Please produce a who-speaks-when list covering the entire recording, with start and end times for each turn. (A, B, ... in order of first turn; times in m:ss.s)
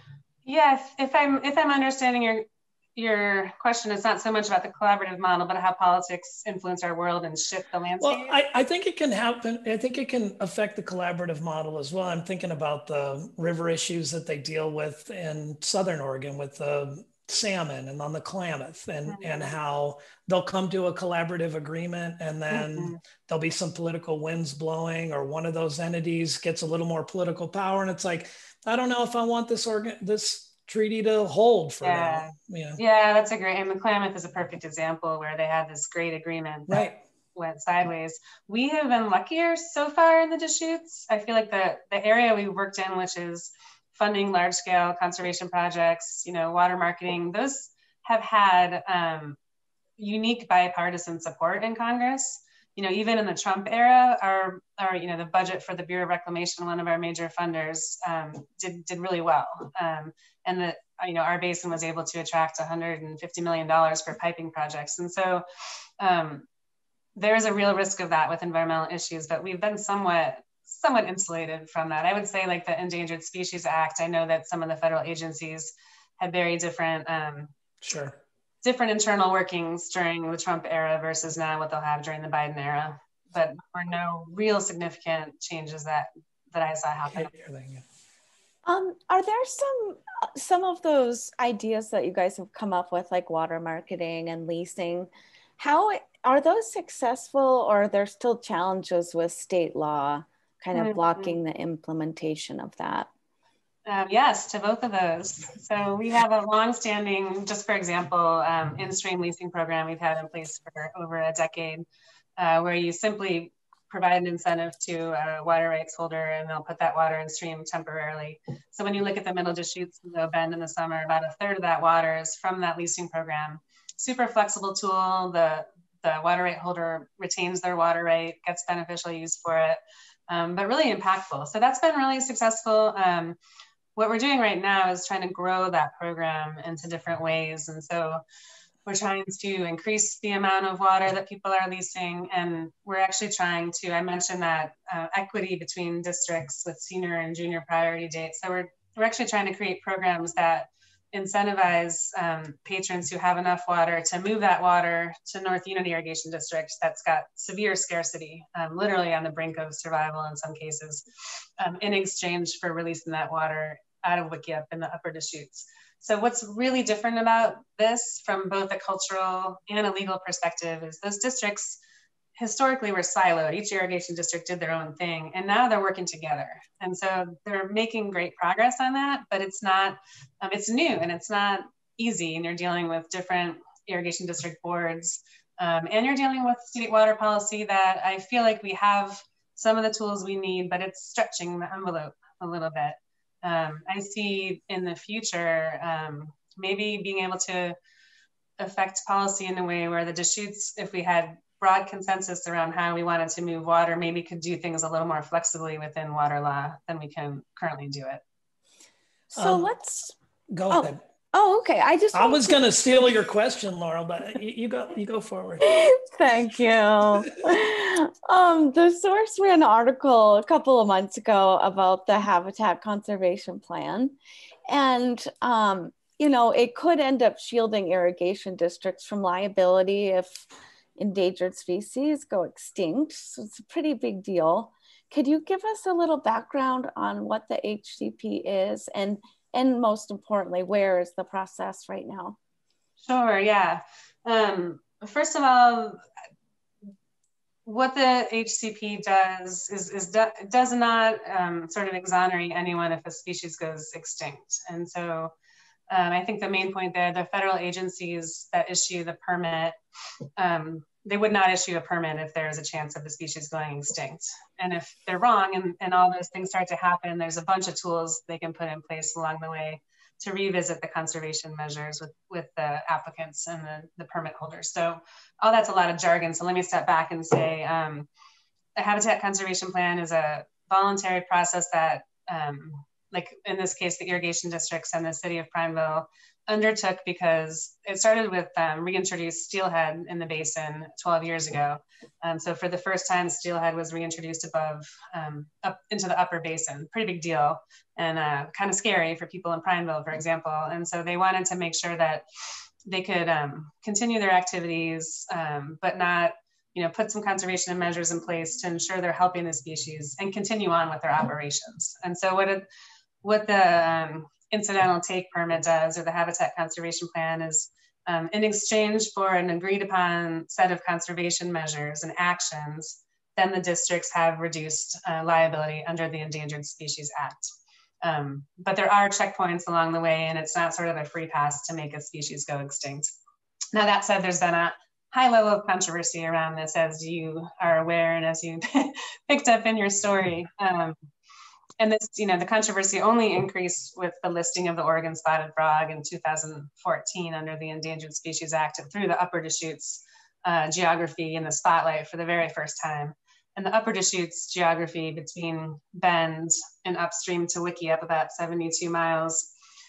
0:00.4-0:02.4 A
0:03.0-0:08.3 A
0:08.0-0:32.8 B
0:19.1-0:19.5 A
0:22.5-0:23.0 A
0:31.8-0:49.4 A
0:36.7-0:37.0 B
0:50.0-1:05.4 A
1:06.0-1:06.5 A
1:07.2-1:17.5 A
1:17.8-1:18.2 B
1:18.6-1:27.3 A
1:27.1-1:27.8 B
1:28.6-1:43.1 C
1:40.7-1:41.4 A
1:43.9-1:51.8 A
1:52.4-2:13.4 A
2:14.0-2:18.2 A
2:18.9-2:51.8 A
2:52.4-3:17.8 A
3:18.6-3:28.2 A
3:29.3-3:30.2 C
3:29.3-3:29.7 B
3:30.5-3:31.0 B
3:30.7-3:33.1 C
3:32.1-3:35.7 B
3:35.6-3:44.2 C
3:44.7-3:50.5 C
3:51.0-4:02.4 C
4:03.0-4:06.0 A
4:07.6-4:15.3 A
4:15.9-4:19.8 A
4:20.4-4:38.1 A
4:38.8-5:02.2 A
5:02.9-5:12.7 A
5:13.2-5:27.5 A
5:28.0-5:33.2 A
5:33.7-5:41.0 A
5:41.8-5:59.5 A